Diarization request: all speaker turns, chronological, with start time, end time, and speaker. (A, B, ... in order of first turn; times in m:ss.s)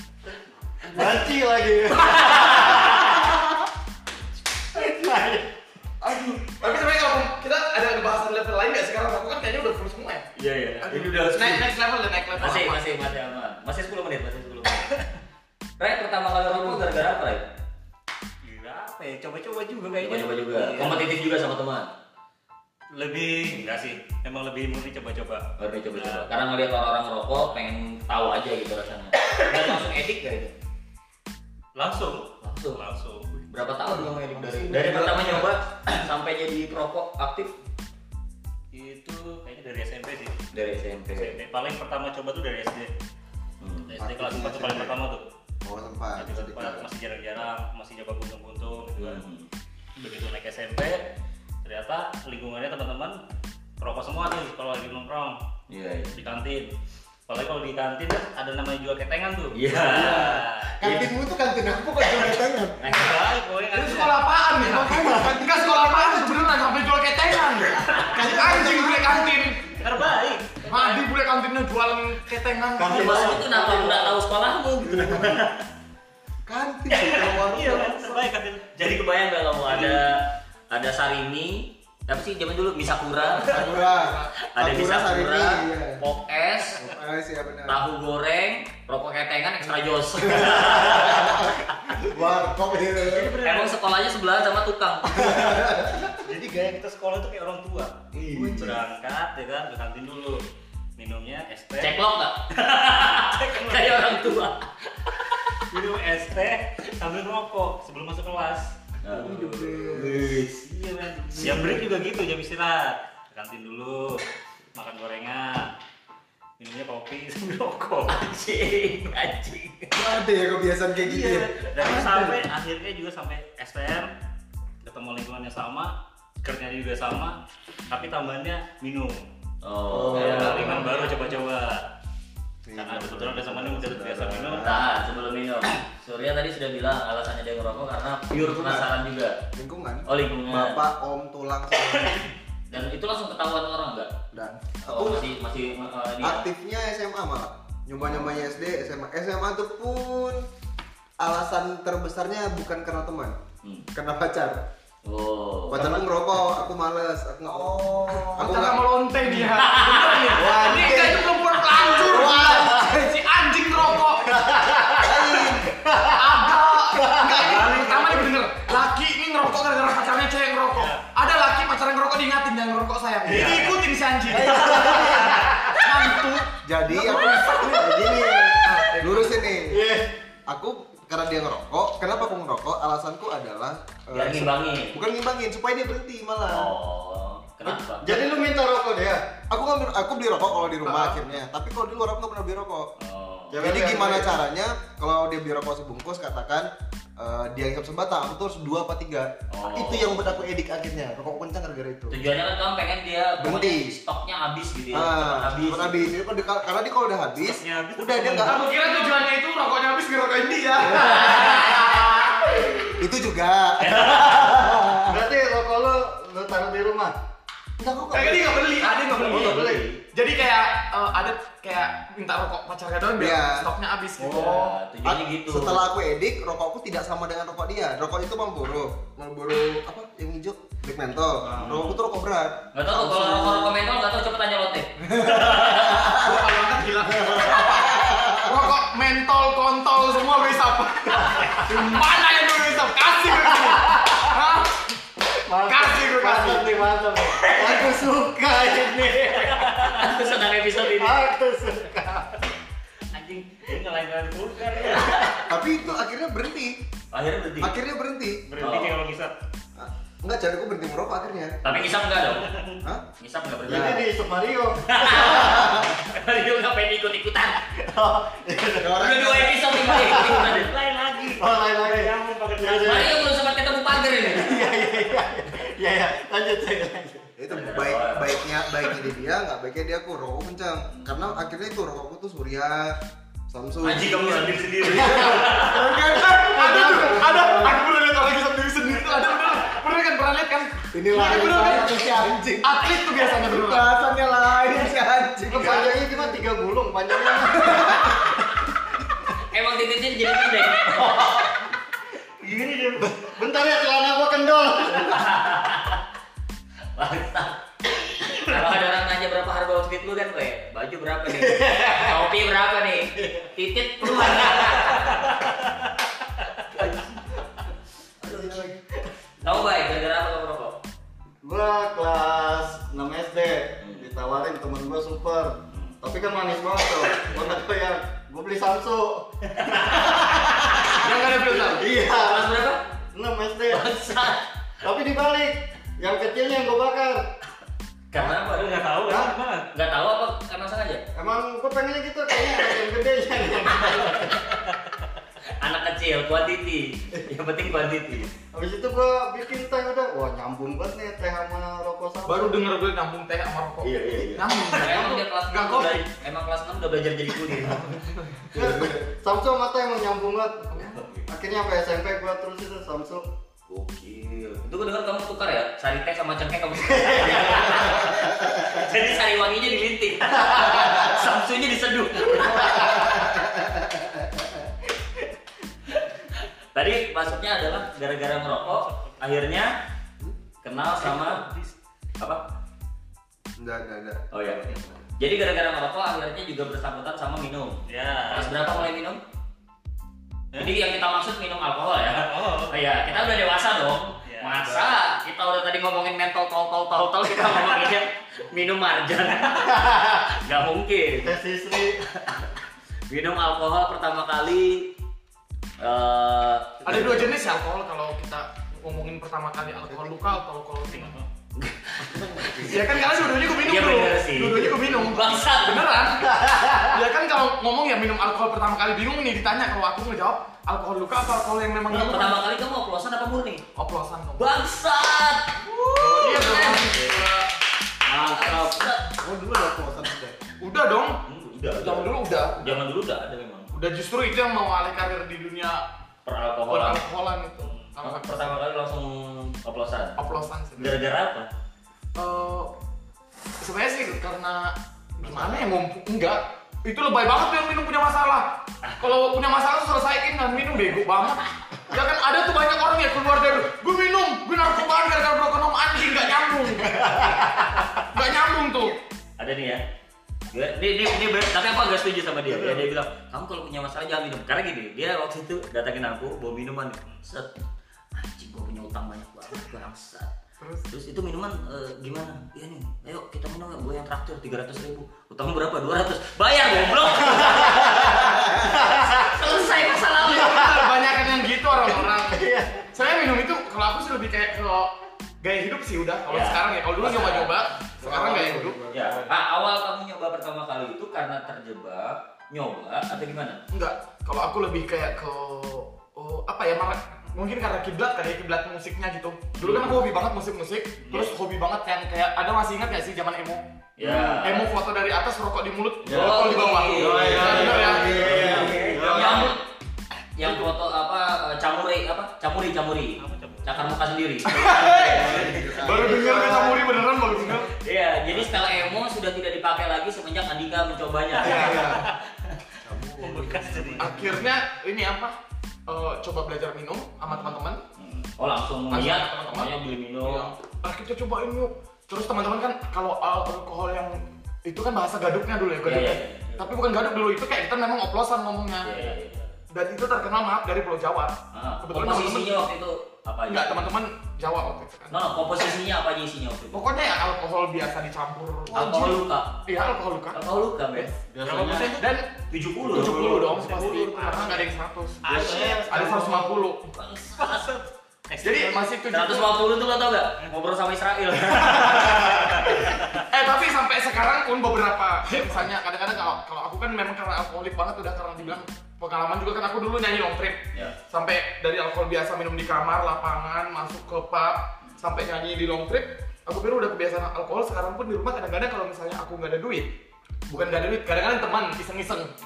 0:00.9-0:03.6 A
0:02.0-0:03.0 B
0:04.7-0:05.5 A
0:06.0-0:10.3 C
0:10.4-0:11.8 B
0:10.8-0:12.8 C
0:12.3-0:14.9 B
0:15.8-0:17.5 B
0:18.4-0:21.1 D
0:20.0-0:21.9 B
0:22.9-0:26.3 D
0:25.6-0:30.6 B
0:31.8-0:33.4 D
0:32.4-0:32.8 B
0:33.5-0:37.5 B
0:33.9-0:35.5 E
0:38.7-0:40.4 D
0:40.5-0:41.4 B
0:41.1-0:42.9 D
0:43.6-0:43.9 B
0:43.9-0:45.2 D
0:44.0-0:45.0 E
0:45.6-0:46.8 E
0:46.2-0:49.2 D
0:49.0-0:49.5 B
0:50.0-0:51.0 D
0:51.6-0:53.2 D
0:53.8-0:55.4 D
0:55.7-0:56.2 B
0:56.1-0:56.7 D
0:57.3-1:00.7 D
0:59.5-1:01.1 B
0:59.9-1:03.1 E
1:02.8-1:04.3 D
1:02.8-1:03.2 B
1:03.7-1:09.6 C
1:04.6-1:06.6 E
1:05.0-1:05.2 A
1:07.9-1:08.4 B
1:08.0-1:09.5 E
1:09.8-1:11.1 D
1:10.7-1:13.4 C
1:12.8-1:14.1 A
1:12.8-1:15.6 B
1:14.8-1:15.4 E
1:16.5-1:18.2 E
1:17.1-1:18.7 D
1:18.8-1:23.6 B
1:19.7-1:20.1 D
1:23.4-1:26.0 E
1:23.5-1:23.8 D
1:23.9-1:24.3 C
1:24.5-1:26.8 B
1:26.8-1:27.8 E
1:27.7-1:31.6 B
1:30.2-1:33.4 E
1:33.0-1:33.8 D
1:33.4-1:35.5 B
1:35.2-1:36.1 E
1:36.2-1:40.4 D
1:38.1-1:38.8 E
1:41.0-1:42.0 D
1:41.8-1:45.4 B
1:43.3-1:44.2 D
1:45.7-1:48.7 D
1:49.0-1:51.7 B
1:49.1-1:50.3 E
1:51.3-1:54.2 D
1:54.8-1:55.7 D
1:56.6-1:58.2 D
1:58.1-1:59.9 B
1:59.9-2:02.4 E
2:01.0-2:04.1 D
2:04.8-2:07.4 D
2:07.9-2:09.3 D
2:09.6-2:10.9 B
2:09.9-2:11.2 E
2:10.1-2:11.9 D
2:12.6-2:14.9 E
2:12.8-2:14.7 D
2:14.6-2:19.4 B
2:18.3-2:18.9 E
2:19.5-2:22.3 E
2:20.1-2:20.8 B
2:22.7-2:24.1 B
2:24.3-2:25.3 E
2:24.9-2:26.4 B
2:26.2-2:30.4 E
2:28.0-2:28.5 B
2:31.2-2:33.4 E
2:33.9-2:34.6 E
2:35.1-2:35.8 B
2:35.7-2:39.4 E
2:38.1-2:44.4 C
2:39.5-2:40.4 B
2:40.4-2:41.1 A
2:40.4-2:43.2 E
2:42.3-2:42.9 A
2:44.2-2:46.3 A
2:45.0-2:45.7 E
2:46.0-2:59.5 C
2:46.9-2:48.2 A
2:50.7-2:51.0 D
2:53.3-2:53.7 A
2:53.4-2:53.6 D
2:54.3-2:55.4 E
2:54.3-2:55.7 A
2:56.6-2:58.0 E
2:57.8-2:58.7 A
2:59.0-2:59.7 E
2:59.7-3:00.1 A
3:00.5-3:06.7 E
3:04.1-3:04.9 B
3:06.5-3:08.4 B
3:07.6-3:09.2 A
3:09.5-3:12.9 E
3:10.8-3:11.2 C
3:13.0-3:13.6 B
3:13.5-3:14.3 A
3:13.6-3:22.2 E
3:19.5-3:20.2 B
3:22.1-3:26.1 B
3:23.4-3:23.9 E
3:24.9-3:28.6 E
3:27.4-3:29.1 D
3:28.4-3:32.2 C
3:31.3-3:31.6 B
3:32.9-3:35.2 E
3:33.8-3:34.6 B
3:35.0-3:37.1 A
3:37.8-3:38.6 E
3:37.9-3:38.4 A
3:38.1-3:44.7 C
3:39.1-3:40.0 B
3:39.1-3:39.8 A
3:43.2-3:43.7 E
3:44.2-3:44.7 A
3:44.3-3:45.8 B
3:45.0-3:53.8 E
3:51.4-3:51.8 A
3:51.7-3:52.0 B
3:52.7-3:56.2 B
3:55.0-3:58.7 E
3:56.1-4:04.8 C
4:03.3-4:04.3 A
4:05.3-4:09.8 A
4:05.6-4:06.9 C
4:07.4-4:08.0 B
4:09.5-4:11.3 B
4:09.6-4:10.2 D
4:10.9-4:12.3 A
4:13.1-4:13.6 B
4:13.6-4:15.4 D
4:15.0-4:15.4 B
4:15.5-4:16.8 E
4:17.1-4:17.7 B
4:17.6-4:18.4 E
4:18.5-4:19.3 D
4:18.6-4:19.0 B
4:19.8-4:21.6 E
4:21.6-4:22.5 B
4:22.3-4:22.8 D
4:23.2-4:24.1 B
4:23.6-4:25.7 A
4:24.9-4:27.6 B
4:27.8-4:29.0 A
4:28.8-4:29.8 E
4:29.0-4:30.7 B
4:29.9-4:30.6 A
4:30.4-4:33.2 D
4:31.4-4:33.3 A
4:32.8-4:34.7 B
4:34.1-4:37.3 A
4:37.4-4:43.0 E
4:37.5-4:38.3 B
4:43.5-4:46.9 E
4:43.8-4:45.9 B
4:46.2-4:53.9 C
4:46.3-4:47.8 A
4:50.9-4:56.4 E
4:55.5-4:58.7 A
4:57.3-4:58.2 E
4:59.5-5:01.5 B
5:00.9-5:01.3 A
5:02.4-5:05.4 A
5:05.0-5:06.0 B
5:07.0-5:07.6 B
5:08.2-5:15.3 B
5:11.3-5:12.3 A
5:13.2-5:13.5 A
5:14.0-5:14.9 A
5:15.1-5:15.4 D
5:16.7-5:17.3 B
5:18.2-5:18.7 B
5:18.3-5:18.8 E
5:18.5-5:19.6 A
5:19.4-5:20.8 B
5:21.4-5:32.6 A
5:23.8-5:24.1 B
5:25.7-5:26.0 B
5:29.6-5:31.0 B
5:30.9-5:31.8 C
5:32.0-5:32.8 B
5:33.1-5:33.8 A
5:33.7-5:34.5 B
5:34.8-5:37.2 A
5:38.1-5:39.2 B
5:38.2-5:39.7 D
5:39.0-5:39.3 A
5:39.7-5:41.0 B
5:41.2-5:44.4 A
5:43.9-5:44.3 B
5:45.5-5:48.3 B
5:48.5-5:52.6 A
5:52.3-5:56.0 C
5:53.8-5:58.1 B
5:58.5-6:03.3 A
6:00.7-6:01.3 B
6:03.7-6:13.3 B
6:06.9-6:07.7 A
6:07.8-6:08.5 E
6:12.7-6:14.5 E
6:16.0-6:19.7 B
6:18.5-6:19.2 D
6:20.6-6:21.4 B
6:21.0-6:21.8 D
6:23.6-6:25.0 E
6:24.3-6:24.6 B
6:25.2-6:29.2 B
6:27.9-6:28.9 D
6:30.6-6:41.4 B
6:32.1-6:32.8 D
6:34.3-6:35.0 D
6:41.2-6:42.0 A
6:42.0-6:42.6 B
6:43.1-6:44.9 B
6:45.8-6:47.4 B
6:46.9-6:51.2 C
6:49.9-6:50.4 E
6:50.9-6:51.3 D
6:51.6-6:56.7 B
6:52.1-6:53.1 E
6:52.6-6:56.3 C
6:56.3-6:56.9 A
6:56.9-7:02.4 C
7:01.9-7:03.6 B
7:03.8-7:04.5 C
7:04.4-7:07.2 B
7:05.9-7:07.5 C
7:08.1-7:09.2 B
7:09.2-7:10.4 E
7:10.6-7:11.2 C
7:11.3-7:13.7 B
7:11.8-7:12.8 C
7:13.7-7:15.8 C
7:16.2-7:17.0 B
7:16.7-7:18.6 C
7:18.0-7:20.2 B
7:20.2-7:21.0 C
7:20.8-7:21.5 B
7:22.2-7:22.7 C
7:23.6-7:37.0 C
7:25.3-7:25.6 B
7:28.8-7:29.1 B
7:36.9-7:37.8 A
7:38.0-7:39.0 C
7:39.4-7:39.8 B
7:40.5-7:47.5 B
7:42.5-7:42.9 A
7:48.2-7:50.3 B
7:50.9-8:00.6 B
7:57.3-7:58.1 A
7:58.6-7:59.5 A
8:00.2-8:08.8 C
8:00.2-8:01.1 A
8:01.6-8:02.9 A
8:06.3-8:07.7 B
8:08.0-8:09.2 E
8:08.9-8:13.6 B
8:09.0-8:09.3 A
8:13.7-8:23.6 C
8:19.6-8:19.9 B
8:19.7-8:20.0 D
8:24.0-8:24.7 B
8:24.0-8:24.5 A
8:24.4-8:29.6 C
8:26.0-8:29.5 A
8:26.1-8:29.6 B
8:27.6-8:29.0 E
8:30.4-8:36.7 B
8:30.4-8:30.7 C
8:33.2-8:33.9 D
8:34.4-8:37.7 C
8:34.7-8:36.8 E
8:35.3-8:36.8 A
8:37.4-8:42.0 B
8:41.3-8:42.2 D
8:41.4-8:42.0 A
8:42.8-8:44.4 E
8:43.2-8:44.2 D
8:44.0-8:45.4 C
8:45.9-8:47.8 C
8:47.3-8:50.5 B
8:48.9-8:59.0 C
8:55.8-8:56.6 B
8:58.8-8:59.5 B
8:59.7-9:02.6 C
9:01.5-9:03.9 B
9:03.5-9:05.1 C
9:05.1-9:06.9 B
9:06.7-9:10.4 C
9:08.7-9:09.6 B
9:10.3-9:11.1 B
9:11.3-9:12.0 A
9:11.4-9:12.1 D
9:11.9-9:12.3 C
9:12.5-9:13.3 B
9:12.9-9:13.6 A
9:12.9-9:16.9 C
9:13.1-9:16.6 D
9:15.2-9:16.2 A
9:16.9-9:17.7 B
9:17.4-9:18.9 D
9:18.4-9:19.5 C
9:19.1-9:22.9 B
9:21.5-9:39.9 C
9:40.5-9:42.3 C